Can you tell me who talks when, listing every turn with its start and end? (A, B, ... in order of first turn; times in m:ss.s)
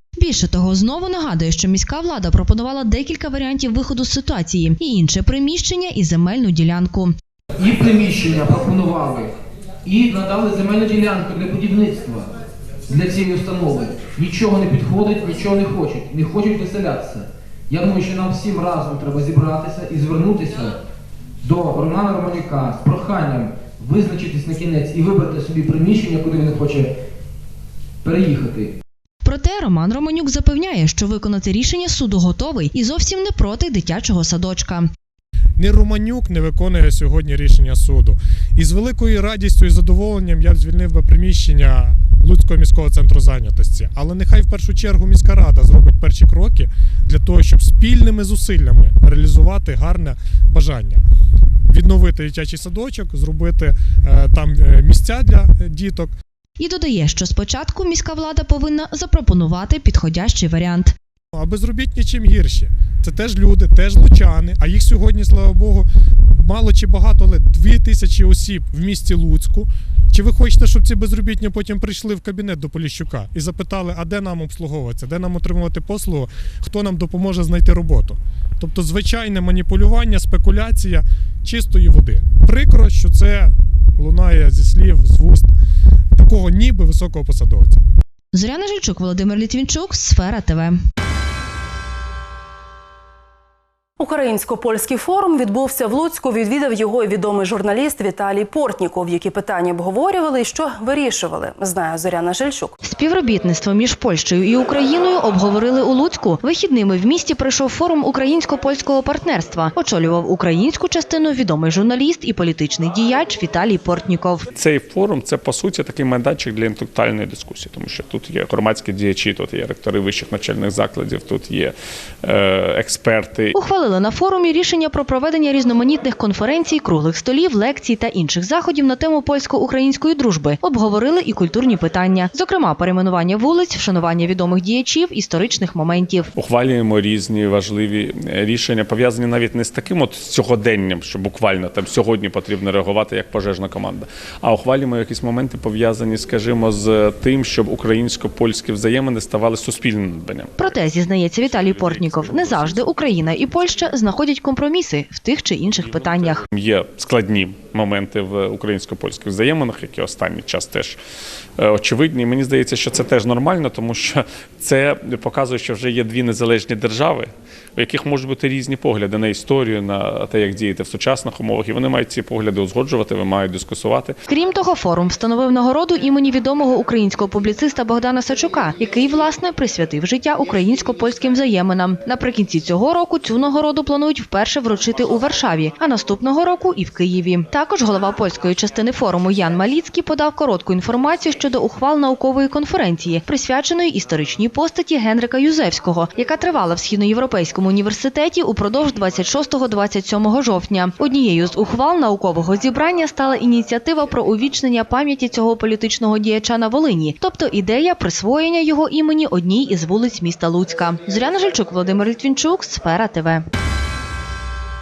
0:00.2-0:07.1 A
0:07.6-0:09.3 B
0:09.8-0:12.3 B
0:12.9-0:20.8 B
0:21.4-0:26.9 B
0:28.0-0:28.8 B
0:29.2-0:34.9 A
0:35.6-0:51.0 C
0:51.7-0:56.1 C
0:56.6-1:00.9 A
1:01.3-1:25.5 C
1:26.1-1:27.8 C
1:28.3-1:30.8 A
1:34.0-1:42.8 D
1:42.8-1:54.5 A
1:54.5-2:03.5 E
2:03.5-2:16.3 A
2:16.4-2:30.7 E
2:30.6-2:36.4 A
2:31.5-2:32.9 E
2:36.4-2:41.0 E
2:41.6-2:54.2 E
2:54.3-3:33.4 A